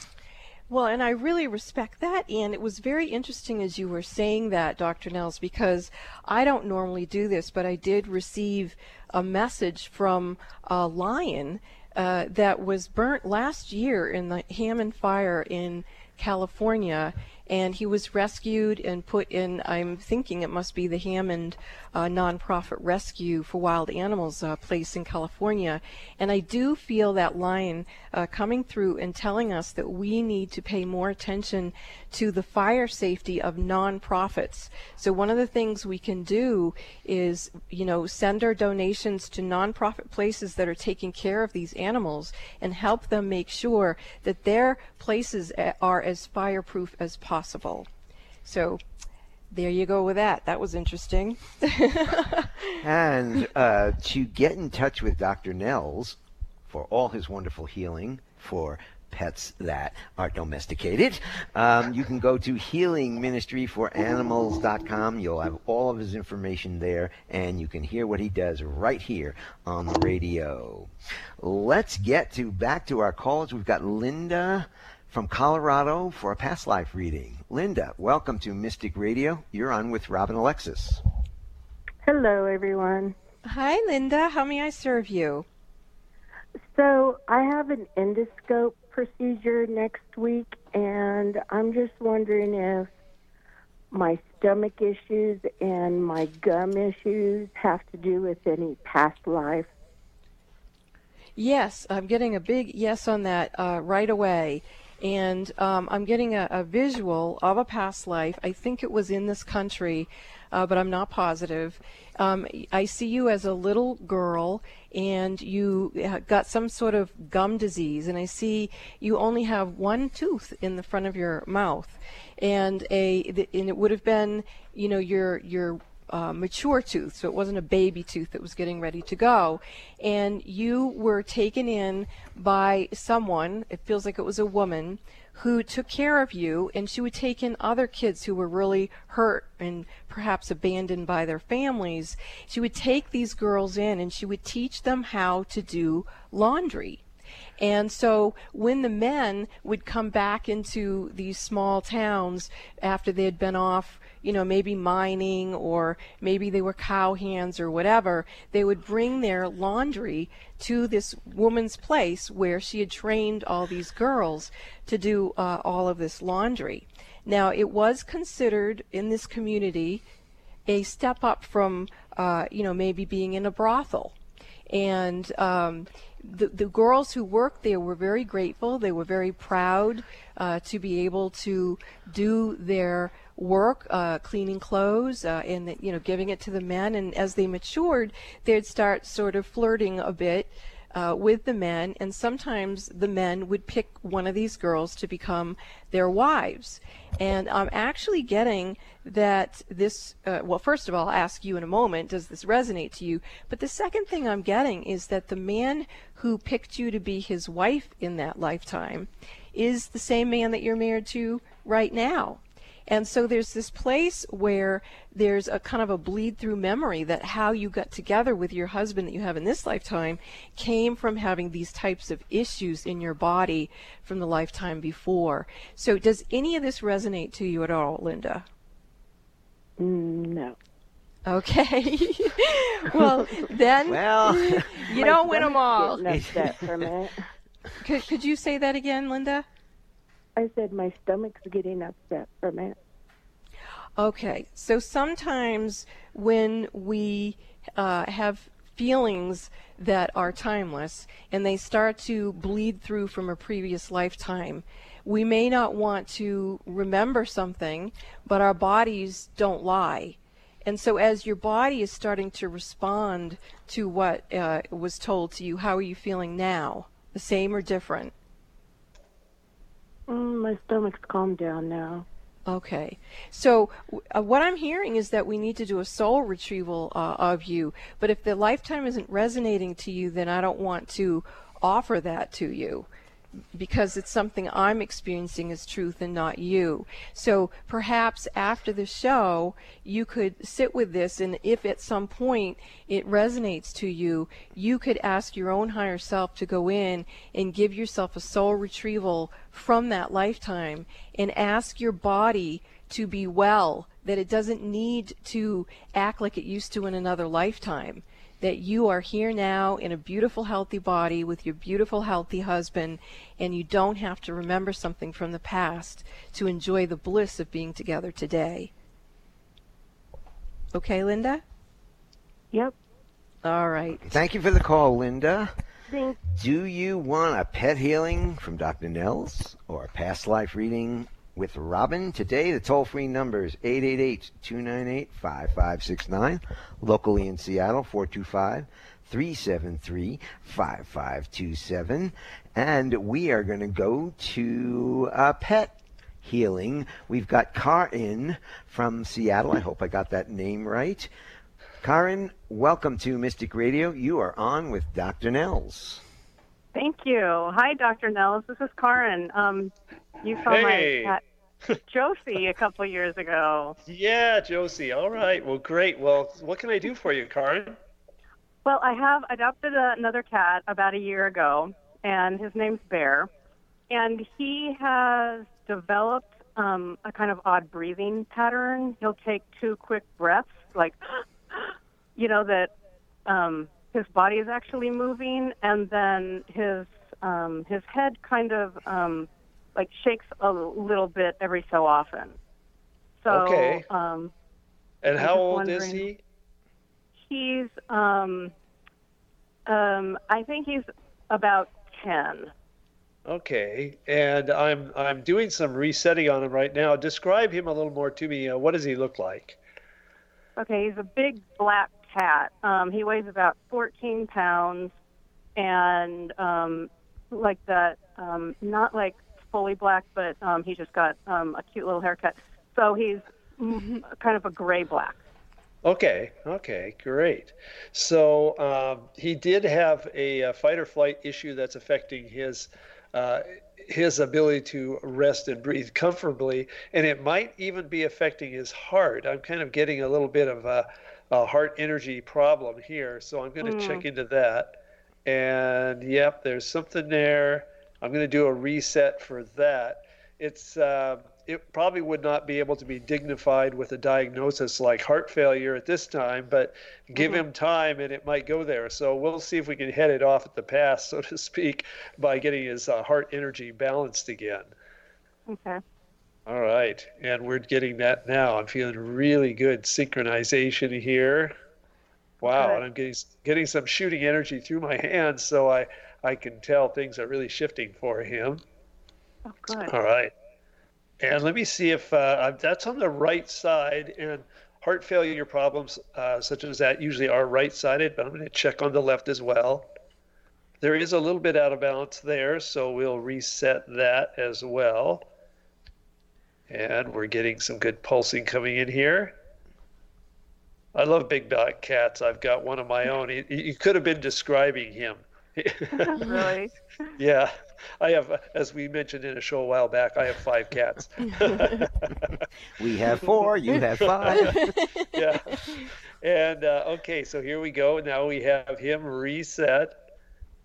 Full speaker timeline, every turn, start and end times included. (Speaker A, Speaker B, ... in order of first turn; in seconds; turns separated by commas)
Speaker A: 0.7-47.9, Speaker A: 48.4-48.8, Speaker A: 49.5-52.7, Speaker B: 52.8-56.2, Speaker B: 56.7-81.0, Speaker C: 82.0-83.2, Speaker A: 83.4-85.5, Speaker C: 86.7-92.9, Speaker C: 93.9-99.7, Speaker A: 101.4-147.0, Speaker A: 147.6-170.0, Speaker A: 170.7-174.1, Speaker A: 174.7-228.4, Speaker C: 229.8-230.6, Speaker A: 231.3-236.0, Speaker C: 232.9-233.5, Speaker B: 233.8-235.0, Speaker C: 234.2-237.2, Speaker B: 236.0-236.9, Speaker A: 237.8-239.4, Speaker C: 240.3-242.8, Speaker A: 244.0-268.1, Speaker C: 270.1-272.1, Speaker A: 272.5-282.9, Speaker A: 283.5-318.7, Speaker A: 320.7-321.4, Speaker A: 323.4-324.1, Speaker B: 324.1-325.5, Speaker C: 325.9-326.2, Speaker B: 326.2-351.1, Speaker B: 351.8-356.0, Speaker D: 356.7-361.2, Speaker E: 360.3-361.1, Speaker D: 361.9-363.8, Speaker E: 363.9-367.8, Speaker D: 368.6-373.3, Speaker D: 373.9-382.7, Speaker D: 383.2-392.4, Speaker D: 393.2-394.3, Speaker E: 393.3-393.9, Speaker E: 395.0-396.2, Speaker D: 395.1-396.1, Speaker D: 397.3-398.5, Speaker D: 399.6-402.5, Speaker E: 403.2-409.6, Speaker D: 410.6-414.9, Speaker D: 415.6-425.2, Speaker E: 425.8-464.7, Speaker D: 443.6-444.1, Speaker D: 457.1-457.4, Speaker D: 465.5-465.8, Speaker E: 466.5-471.5, Speaker E: 472.4-478.6, Speaker D: 472.4-472.8, Speaker D: 479.5-479.9, Speaker E: 479.8-480.3, Speaker E: 481.2-489.9, Speaker E: 490.8-495.2, Speaker E: 496.7-499.4, Speaker E: 500.9-506.5, Speaker D: 506.0-506.7, Speaker E: 507.2-512.3, Speaker B: 512.8-514.7, Speaker E: 513.7-514.5, Speaker A: 514.4-515.1, Speaker E: 515.1-519.9